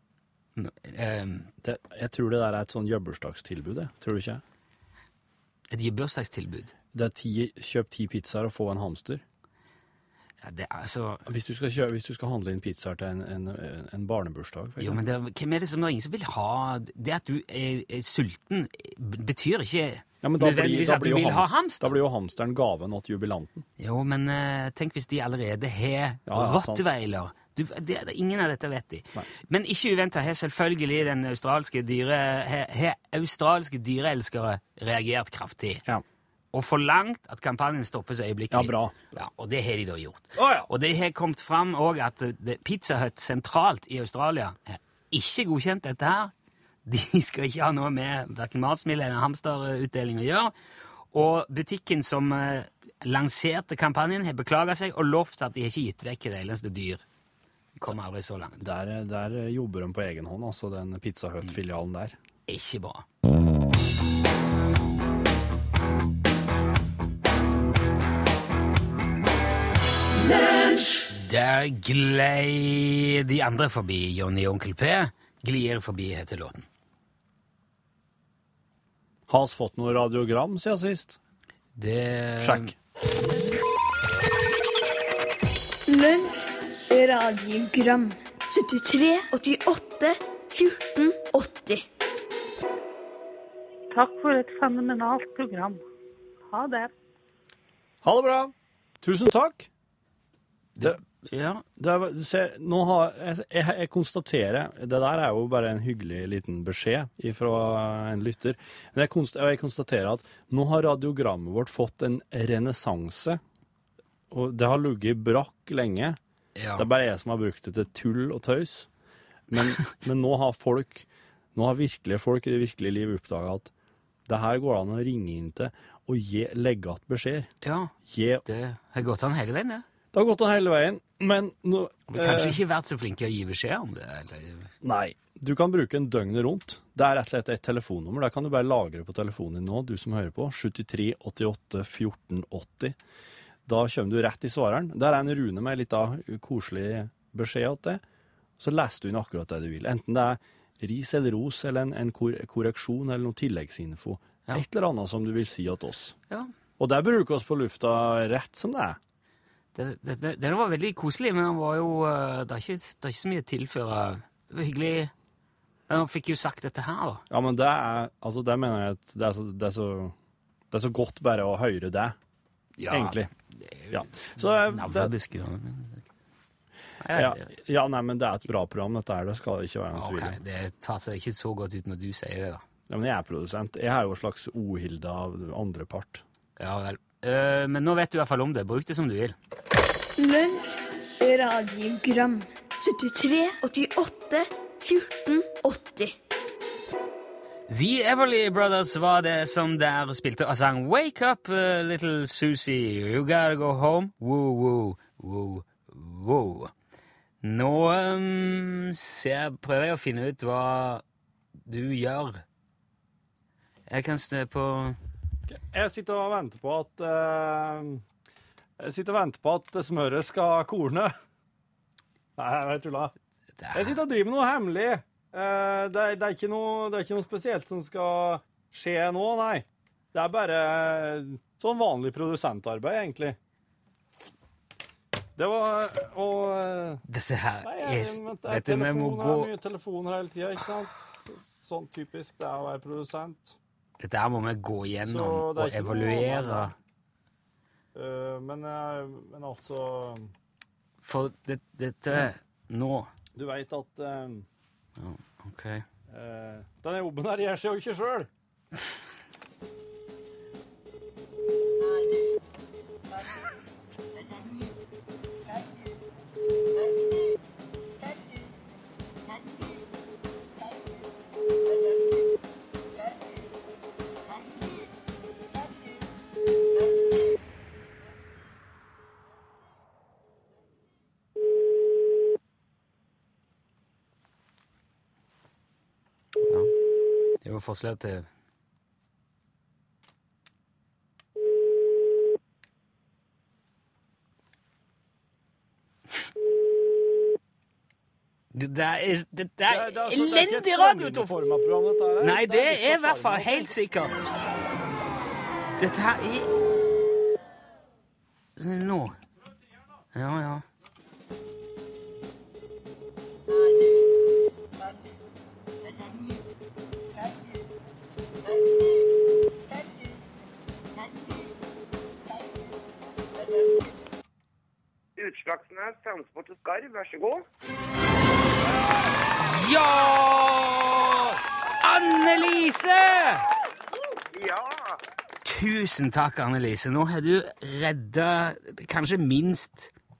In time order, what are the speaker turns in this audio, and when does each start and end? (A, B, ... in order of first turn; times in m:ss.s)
0:00.6-0:01.5 A
0:01.6-0:04.4 B
0:05.7-0:06.7 A
0:06.9-0:09.2 B
0:10.4-0:11.3 A
0:11.2-0:15.0 B
0:14.8-0:22.0 A
0:20.2-0:23.6 B
0:23.8-0:35.8 A
0:26.3-0:26.9 B
0:36.5-0:46.3 A
0:38.5-0:38.9 B
0:40.4-0:40.7 B
0:46.8-0:50.5 A
0:51.1-0:57.0 A
0:57.8-0:58.6 A
0:58.6-1:02.2 B
1:02.5-1:03.0 A
1:11.1-1:16.7 A
1:19.3-1:21.2 B
1:21.7-1:22.7 A
1:22.4-1:22.7 B
1:25.9-1:31.8 C
1:33.9-1:35.8 D
1:36.5-1:36.9 D
1:38.0-1:39.7 B
1:40.8-1:41.6 A
1:41.8-1:53.4 B
1:54.3-1:56.2 B
1:56.6-1:56.9 A
1:56.8-1:58.9 B
1:59.5-2:03.7 B
2:04.3-2:07.5 B
2:07.6-2:07.9 A
2:08.0-2:08.4 B
2:08.4-2:09.8 A
2:10.1-2:12.6 B
2:12.1-2:14.7 A
2:14.8-2:23.0 B
2:23.6-2:28.0 B
2:28.6-2:36.2 B
2:36.8-2:39.0 B
2:39.7-2:45.1 A
2:45.9-2:47.2 A
2:47.3-2:50.1 B
2:50.7-2:52.2 B
2:52.8-2:56.0 A
2:52.9-2:53.3 B
2:53.9-2:55.1 B
2:57.0-2:57.6 A
2:57.1-3:00.4 B
2:59.9-3:02.6 A
3:02.9-3:06.2 B
3:06.6-3:09.4 A
3:10.2-3:16.2 C
3:17.7-3:26.7 A
3:27.4-3:31.0 A
3:31.6-3:32.4 A
3:33.9-3:35.0 A
3:35.5-3:38.0 B
3:38.8-3:41.1 B
3:42.4-3:43.1 B
3:43.6-3:44.0 A
3:43.7-3:53.4 B
3:55.4-3:57.0 B
3:57.1-3:59.5 A
3:57.6-4:03.6 B
4:04.0-4:06.7 A
4:05.0-4:06.7 B
4:07.9-4:10.3 B
4:11.0-4:13.1 A
4:13.3-4:14.5 B
4:15.0-4:15.8 A
4:16.1-4:18.3 B
4:46.4-4:46.7 A
4:47.4-4:48.3 A
4:58.5-5:01.3 A
4:59.7-5:03.8 B
5:02.2-5:04.3 A
5:05.8-5:06.5 A
5:08.6-5:09.2 A
5:10.1-5:10.6 A
5:25.2-5:27.4 E
5:29.4-5:33.4 A
5:34.3-5:35.0 E
5:35.4-5:39.9 A